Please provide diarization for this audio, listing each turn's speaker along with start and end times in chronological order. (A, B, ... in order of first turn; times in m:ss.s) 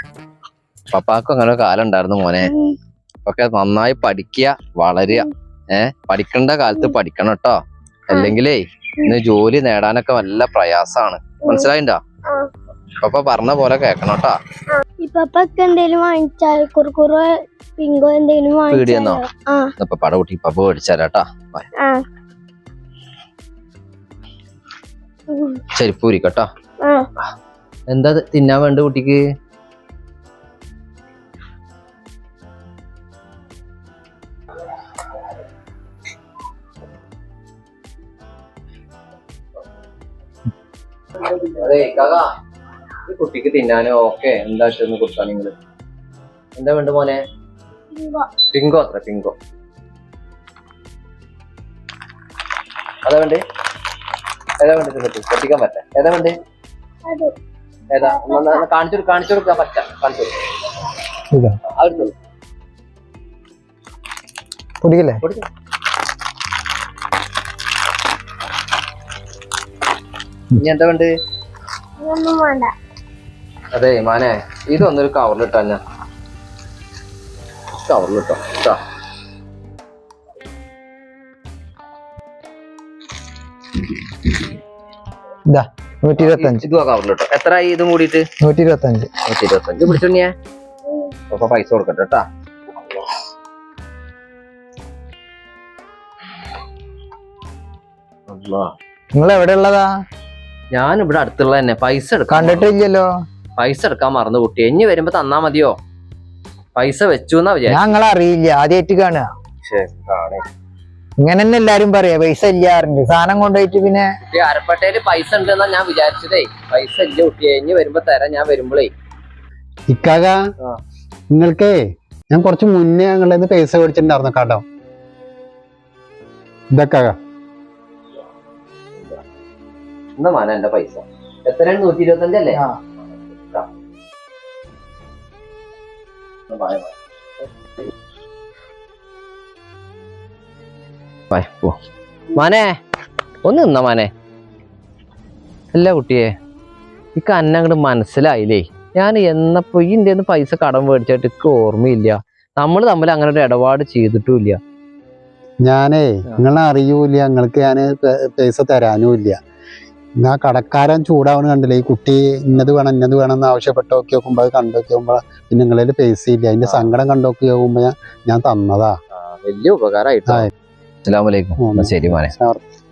0:00.9-0:02.5 A
0:02.4-0:02.8 B
0:03.3-0:07.6 A
0:08.1-0:12.0 A
0:13.0-0:14.4 A
0:15.0-0:19.7 B
0:18.7-0:19.2 A
0:19.8-0:21.7 A
0:21.8-0:22.0 B
0:25.3-0:25.6 B
0:25.7-0:26.5 A
0:27.9-0:29.2 A
0:41.4-0:42.2 A
0:43.1-0:45.5 A
0:46.6-0:47.2 A
0:48.0-0:48.3 B
0:48.5-0:49.4 A
0:53.0-0:53.4 A
0:54.6-0:56.4 A
0:57.1-0:57.3 B
0:57.9-1:00.3 A
0:58.0-0:58.6 B
1:01.3-1:01.6 C
1:01.8-1:02.1 A
1:04.8-1:05.2 C
1:10.6-1:11.1 A
1:12.0-1:12.7 B
1:13.7-1:15.8 A
1:17.8-1:18.8 A
1:25.5-1:26.6 C
1:26.2-1:28.2 A
1:28.4-1:29.1 C
1:29.2-1:30.3 A
1:31.3-1:32.2 A
1:38.3-1:38.7 A
1:39.2-1:39.9 C
1:40.7-1:42.7 A
1:42.3-1:43.1 C
1:43.6-1:45.8 A
1:46.8-1:47.9 A
1:47.7-1:49.3 C
1:49.7-1:50.4 A
1:51.2-1:54.1 C
1:54.3-1:58.9 A
1:59.9-2:00.4 D
2:01.3-2:01.8 D
2:02.3-2:04.6 D
2:06.8-2:07.2 D
2:09.0-2:09.2 A
2:10.2-2:12.6 A
2:16.5-2:16.9 A
2:21.3-2:21.8 A
2:22.3-2:22.8 A
2:23.4-2:24.1 A
2:25.7-2:26.3 A
2:27.2-2:34.6 A
2:35.7-2:39.4 D
2:40.2-2:48.9 D
2:46.6-2:46.9 A
2:49.1-2:50.5 A
2:51.0-2:52.3 A
2:51.6-2:52.6 D